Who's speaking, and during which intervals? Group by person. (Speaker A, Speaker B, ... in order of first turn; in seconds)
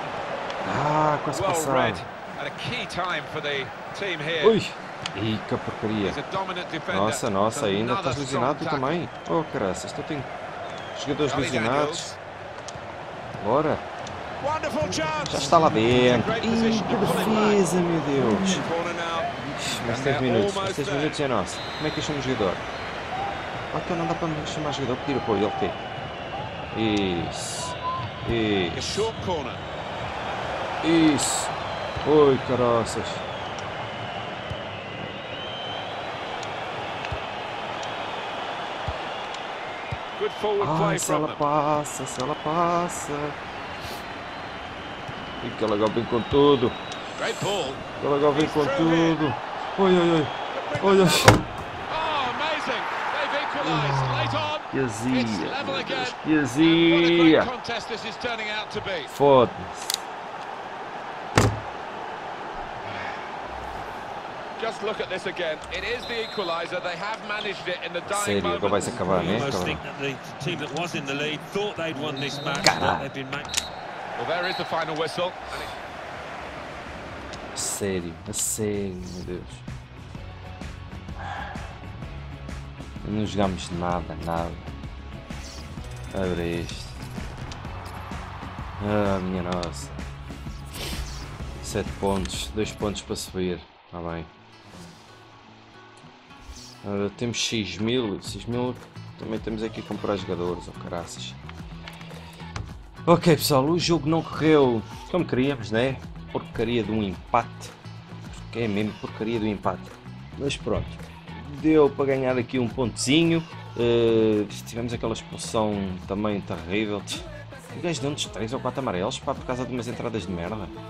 Speaker A: 0.6-2.0, 4.4-6.2, 6.9-10.3, 10.9-12.1, 13.4-13.8, 15.2-18.7, 19.5-22.6, 23.7-25.8, 26.7-29.1, 30.8-33.2, 40.6-43.3, 45.4-46.8, 48.0-51.5, 53.6-57.5, 59.1-60.0, 68.0-69.8, 72.6-73.1, 77.5-79.6, 83.0-84.7, 86.1-87.0, 88.8-90.0, 91.6-94.3, 96.8-101.4, 103.0-107.7, 108.3-120.8
Speaker B: 1.3-4.6, 6.0-9.0, 11.2-12.2, 14.4-17.6, 18.5-21.2, 28.7-29.6, 40.1-41.4, 47.1-49.2, 50.5-51.3, 51.9-59.1, 64.6-69.5, 74.2-75.7
Speaker C: 69.0-73.5